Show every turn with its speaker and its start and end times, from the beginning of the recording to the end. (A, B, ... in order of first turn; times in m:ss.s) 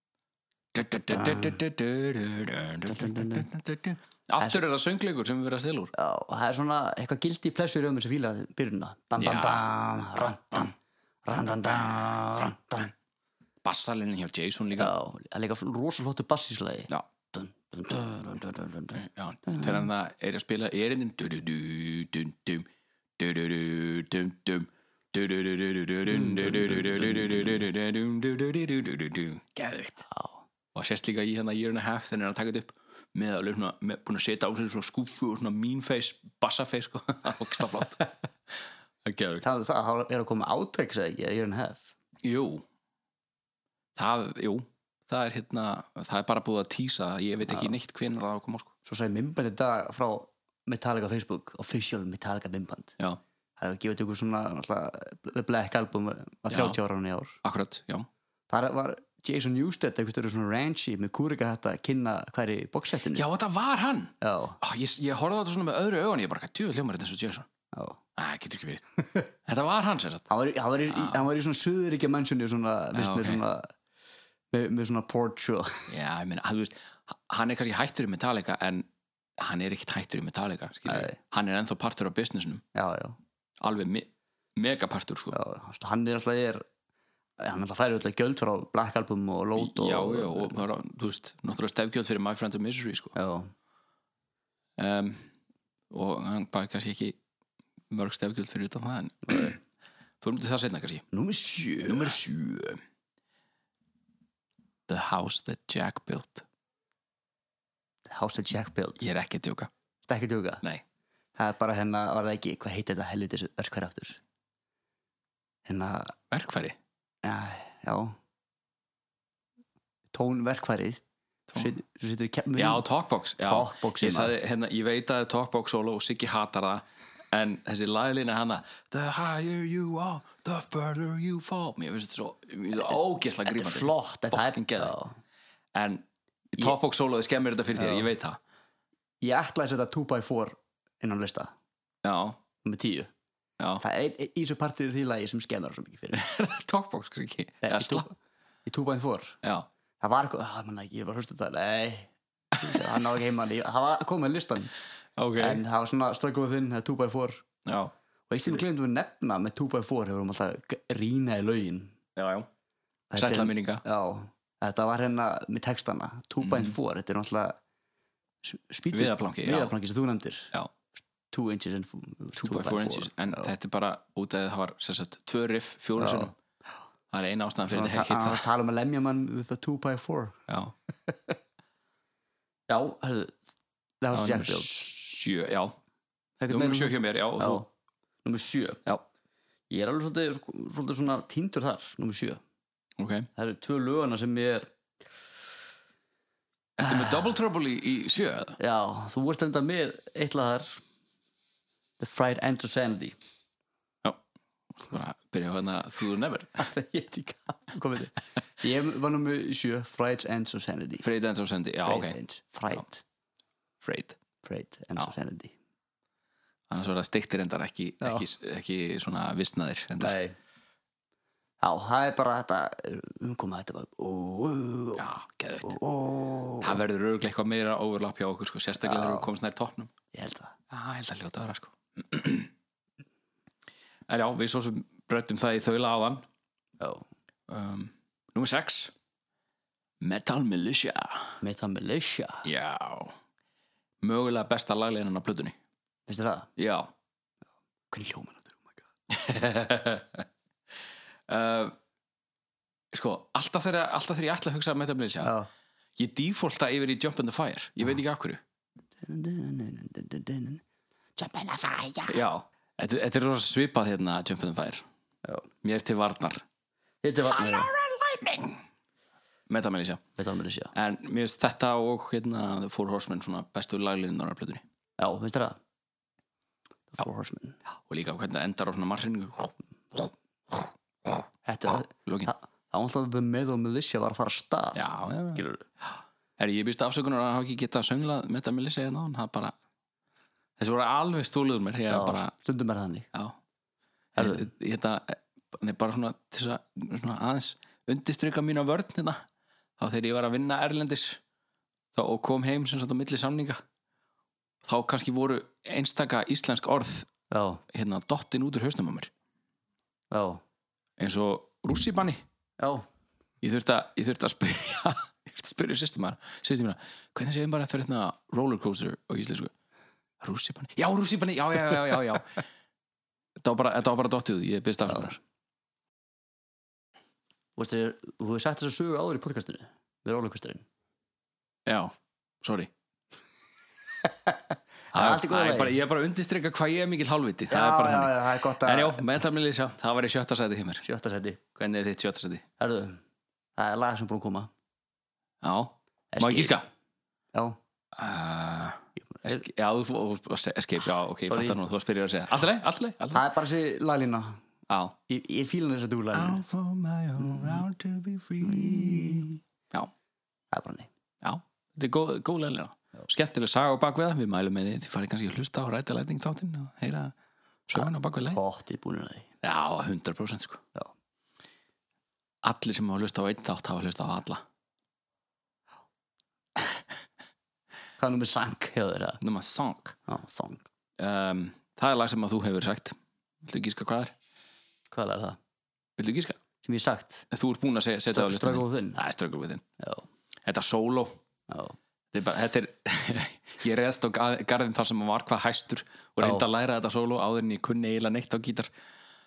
0:00.7-0:05.9 A
0:00.9-0:01.6 B
0:02.9-0:03.5 B
0:06.0-0:10.7 B
0:09.2-0:09.7 A
0:11.3-0:12.9 B
0:13.6-0:14.9 A
0:14.8-0:19.8 B
0:18.9-0:30.1 A
0:26.1-0:27.6 B
0:30.1-0:30.4 B
0:30.7-0:38.0 A
0:39.0-0:39.4 A
0:39.4-0:41.9 B
0:42.2-0:42.6 A
0:44.0-0:48.7 A
0:47.5-0:47.7 B
0:48.8-0:53.0 B
0:53.6-0:57.4 B
0:56.5-0:56.8 A
0:57.4-0:58.1 A
0:58.5-1:03.3 B
1:03.1-1:07.5 A
1:04.2-1:04.6 B
1:07.7-1:08.0 B
1:08.2-1:08.9 A
1:09.4-1:10.3 A
1:10.3-1:13.7 B
1:10.9-1:11.2 A
1:12.9-1:13.4 A
1:14.5-1:15.9 B
1:15.9-1:18.9 A
1:19.4-1:22.6 A
1:20.9-1:21.2 B
1:22.7-1:23.2 B
1:23.6-1:25.4 A
1:25.3-1:26.6 B
1:27.4-1:30.6 B
1:29.6-1:33.2 A
1:33.2-1:33.5 B
1:34.8-1:35.3 A
1:35.9-1:37.2 A
1:37.9-1:39.6 A
1:40.2-1:41.0 A
1:41.1-1:42.2 B
1:41.8-1:42.8 A
1:44.9-1:46.4 A
1:48.1-1:49.0 B
1:49.0-1:49.7 A
1:50.1-1:50.6 B
1:51.4-1:54.2 B
1:55.7-1:56.2 B
1:56.3-1:56.8 A
1:57.2-1:58.2 B
2:00.1-2:02.8 B
2:02.6-2:15.0 A
2:03.4-2:04.3 B
2:13.5-2:15.2 B
2:15.7-2:18.4 A
2:17.8-2:18.1 B
2:19.2-2:21.5 B
2:22.0-2:22.4 A
2:22.6-2:23.1 B
2:23.8-2:26.2 B
2:26.1-2:28.1 A
2:27.6-2:28.1 B
2:28.7-2:29.4 B
2:30.0-2:34.7 B
2:32.6-2:33.0 A
2:35.2-2:35.6 A
2:35.4-2:37.4 B
2:37.6-2:37.9 A
2:38.3-2:42.0 B
2:42.2-2:42.5 A
2:43.1-2:47.6 B
2:43.2-2:43.8 A
2:46.4-2:46.8 A
2:48.4-2:50.5 B
2:48.9-2:49.7 A
2:51.3-2:53.5 B
2:52.4-2:56.3 A
2:56.0-2:56.3 B
2:57.1-2:58.5 A
2:57.7-3:00.4 B
3:00.5-3:00.7 A
3:01.1-3:01.4 B
3:02.7-3:03.4 B
3:04.0-3:04.9 B
3:04.1-3:05.8 A
3:06.4-3:07.7 B
3:06.5-3:07.7 A
3:08.2-3:08.8 B
3:09.7-3:12.4 B
3:13.0-3:13.3 A
3:13.4-3:14.7 B
3:16.8-3:18.6 A
3:16.8-3:17.4 B
3:18.6-3:20.8 B
3:22.0-3:23.2 B
3:24.8-3:26.6 A
3:26.6-3:31.1 B
3:31.0-3:32.2 A
3:31.8-3:33.0 B
3:33.8-3:34.2 A
3:34.4-3:35.5 B
3:36.7-3:40.2 A
3:40.0-3:40.4 B
3:41.6-3:45.0 B
3:45.0-3:45.8 A
3:45.6-3:46.8 B
3:46.6-3:49.9 A
3:48.8-3:49.3 B
3:50.1-3:50.6 B
3:50.7-3:52.5 A
3:54.1-3:56.2 A
3:56.8-3:57.0 B
3:57.5-3:58.9 A
4:00.0-4:01.4 A
4:01.4-4:02.5 B
4:02.4-4:03.2 A
4:04.0-4:05.6 A
4:06.1-4:06.5 B
4:06.6-4:06.9 A
4:07.9-4:08.8 B
4:09.1-4:10.3 A
4:11.3-4:11.8 A
4:12.9-4:15.3 A
4:15.2-4:15.5 B
4:16.0-4:18.4 A
4:19.0-4:20.6 B
4:21.2-4:22.2 B
4:22.1-4:24.9 A
4:25.6-4:26.4 A
4:27.0-4:27.7 B
4:27.3-4:28.6 A
4:29.5-4:30.0 A
4:30.2-4:30.7 B
4:30.7-4:34.6 A
4:35.0-4:35.6 B
4:36.9-4:37.6 B
4:37.9-4:42.3 A
4:41.5-4:45.6 B
4:44.8-4:45.4 A
4:46.4-4:49.6 A
4:50.6-4:52.3 A
4:51.9-4:53.1 B
4:54.2-4:59.2 A
4:54.2-4:54.5 B
4:59.8-5:01.2 A
5:01.9-5:03.6 A
5:04.6-5:07.1 A
5:07.3-5:07.6 B
5:07.7-5:09.1 A
5:10.1-5:10.4 B
5:11.0-5:12.2 A
5:12.6-5:12.9 B
5:13.4-5:19.5 A
5:20.2-5:22.4 A
5:23.4-5:25.2 A
5:27.6-5:30.7 B
5:31.7-5:32.7 A
5:34.9-5:35.8 B
5:34.9-5:40.8 A
5:37.5-5:39.1 B
5:40.8-5:41.4 B
5:41.6-5:42.4 A
5:42.6-5:43.0 B
5:43.6-5:44.5 B
5:45.4-5:46.7 A
5:46.1-5:46.6 B
5:47.9-5:53.2 A
5:49.1-5:49.4 B
5:51.3-5:51.6 B
5:53.1-5:54.4 B
5:54.7-5:55.0 A
5:55.1-5:56.4 B
5:56.1-5:59.9 A
5:57.2-5:57.6 B
5:58.4-5:59.4 B
6:00.5-6:00.9 B
6:01.2-6:07.1 A
6:07.7-6:08.4 A
6:07.8-6:09.3 B
6:09.4-6:10.6 A
6:12.4-6:14.4 A
6:18.0-6:19.2 B
6:19.2-6:20.0 A
6:20.1-6:20.7 B
6:21.0-6:24.1 A
6:24.9-6:25.4 B
6:26.0-6:26.4 A
6:26.6-6:27.3 B
6:27.3-6:29.6 A
6:28.1-6:29.0 B
6:29.8-6:30.1 B
6:30.4-6:31.2 A
6:31.5-6:31.8 B
6:32.1-6:38.7 A
6:36.2-6:36.4 B